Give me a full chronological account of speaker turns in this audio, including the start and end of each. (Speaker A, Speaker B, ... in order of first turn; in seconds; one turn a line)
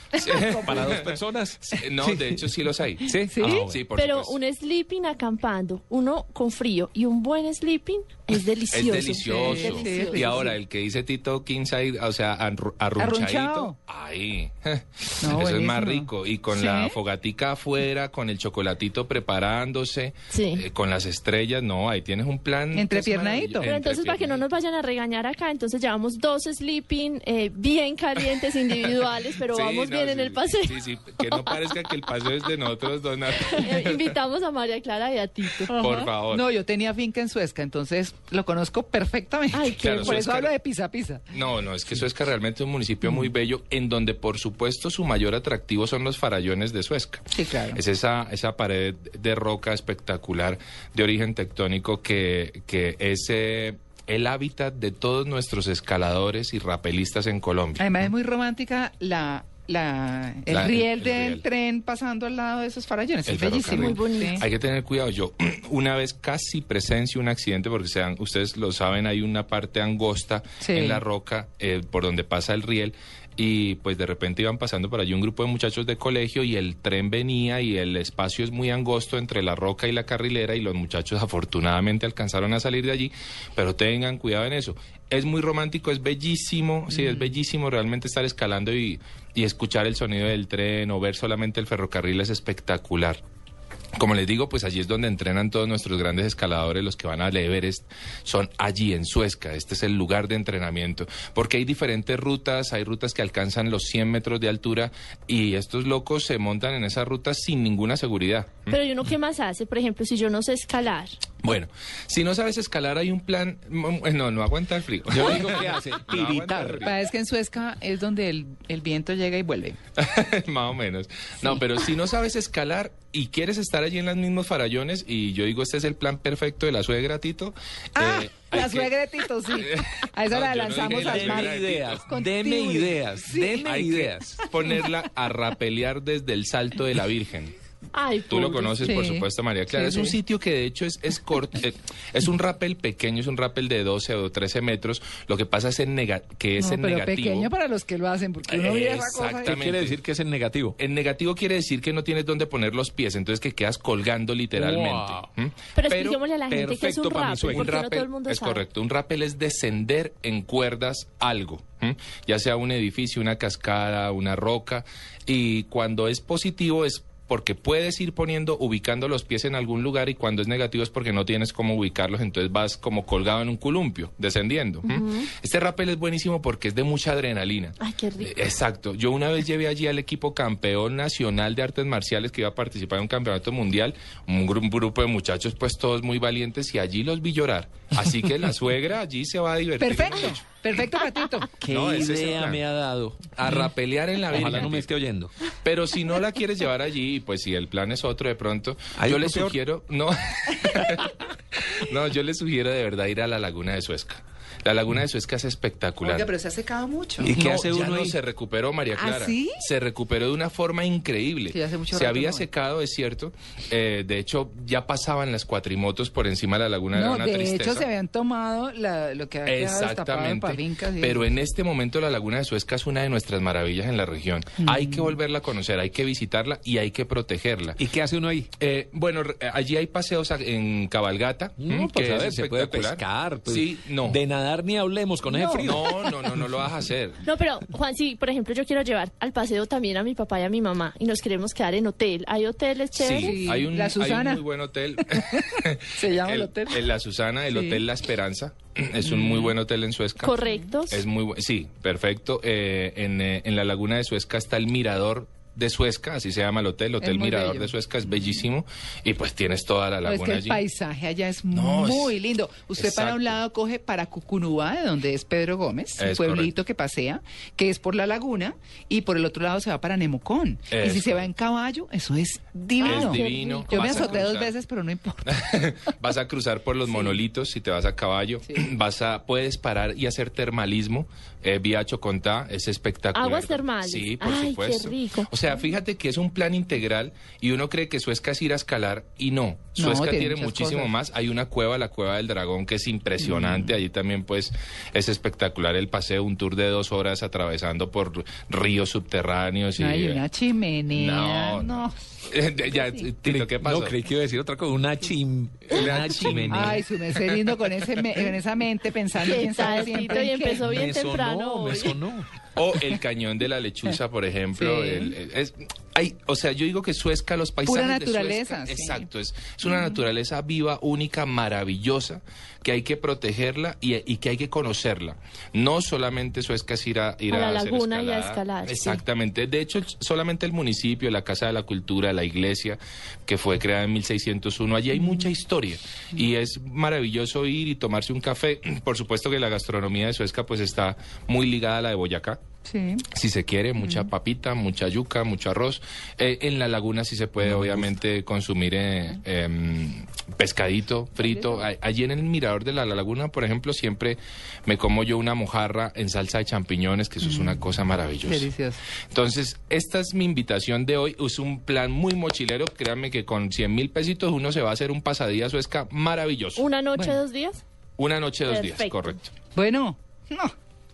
Speaker A: 0.2-0.9
Speaker B: 0.2-4.4
Speaker C: 0.4-2.4
Speaker C: 3.1-3.8
Speaker A: 3.2-3.7
Speaker D: 3.9-10.5
Speaker B: 8.7-24.4
Speaker A: 9.1-10.6
Speaker A: 13.0-13.8
Speaker A: 15.2-17.0
Speaker D: 20.3-20.6
Speaker A: 22.7-23.7
Speaker D: 23.6-32.1
Speaker B: 29.4-34.1
Speaker D: 33.5-35.9
Speaker A: 35.7-41.2
Speaker B: 35.7-36.5
Speaker D: 39.5-40.2
Speaker B: 39.8-40.5
Speaker B: 41.3-57.9
Speaker A: 47.3-47.8
Speaker A: 57.8-64.5
Speaker B: 60.5-61.4
Speaker B: 63.2-93.2
Speaker D: 63.6-64.4
Speaker A: 70.6-71.0
Speaker A: 86.9-87.3
Speaker B: 94.0-108.8
Speaker D: 108.7-111.2
Speaker B: 111.4-116.9
Speaker C: 115.1-116.9
Speaker A: 116.8-119.8
Speaker B: 120.0-128.9
Speaker A: 128.0-134.9
Speaker B: 129.5-132.0
Speaker C: 130.8-134.4
Speaker B: 134.5-137.5
Speaker D: 137.9-138.9
Speaker B: 138.3-147.5
Speaker A: 138.8-140.2
Speaker A: 146.6-149.6
Speaker B: 148.5-150.0
Speaker C: 149.4-150.8
Speaker B: 150.8-190.4
Speaker C: 154.6-155.2
Speaker D: 155.8-158.6
Speaker C: 156.5-157.8
Speaker D: 174.8-175.3
Speaker D: 177.8-178.3
Speaker A: 189.8-191.7
Speaker C: 191.6-193.7
Speaker B: 191.6-192.6
Speaker B: 193.3-194.9
Speaker C: 194.3-195.3
Speaker B: 195.6-206.3
Speaker C: 199.0-199.6
Speaker A: 206.0-207.3
Speaker C: 207.2-208.2
Speaker B: 207.2-217.9
Speaker A: 209.0-209.6
Speaker A: 211.5-212.4
Speaker A: 216.9-221.3
Speaker B: 219.4-227.8
Speaker A: 224.6-225.1
Speaker C: 227.8-228.5
Speaker B: 228.6-234.2
Speaker C: 231.6-236.4
Speaker A: 235.2-236.1
Speaker B: 235.6-237.2
Speaker D: 237.2-243.4
Speaker B: 242.9-250.4
Speaker A: 243.2-244.4
Speaker A: 245.1-246.9
Speaker A: 247.5-247.8
Speaker A: 249.0-249.5
Speaker D: 250.2-251.1
Speaker B: 250.9-260.6
Speaker A: 257.0-257.7
Speaker A: 260.1-275.4
Speaker B: 261.5-262.2
Speaker B: 262.8-263.4
Speaker B: 266.0-266.5
Speaker B: 270.7-271.3
Speaker D: 272.8-274.3
Speaker B: 272.8-274.5
Speaker B: 275.3-300.2
Speaker A: 276.9-277.2
Speaker D: 283.1-285.3
Speaker A: 289.8-290.9
Speaker A: 293.2-293.7
Speaker A: 299.8-301.9
Speaker B: 300.9-304.0
Speaker A: 302.6-303.1
Speaker C: 303.2-306.8
Speaker B: 305.7-306.8
Speaker A: 306.5-310.9
Speaker D: 309.2-312.0
Speaker C: 310.0-312.3
Speaker B: 312.6-342.4
Speaker A: 314.6-315.1
Speaker A: 317.6-319.1
Speaker D: 327.3-329.0
Speaker A: 342.6-343.1
Speaker B: 343.1-358.5
Speaker A: 343.8-344.1
Speaker C: 347.5-347.9
Speaker A: 351.2-351.6
Speaker A: 357.2-357.6
Speaker A: 358.2-358.8
Speaker B: 359.1-366.6
Speaker D: 366.6-367.6
Speaker A: 366.9-367.2
Speaker B: 368.0-369.3
Speaker D: 368.5-369.1
Speaker A: 369.5-370.5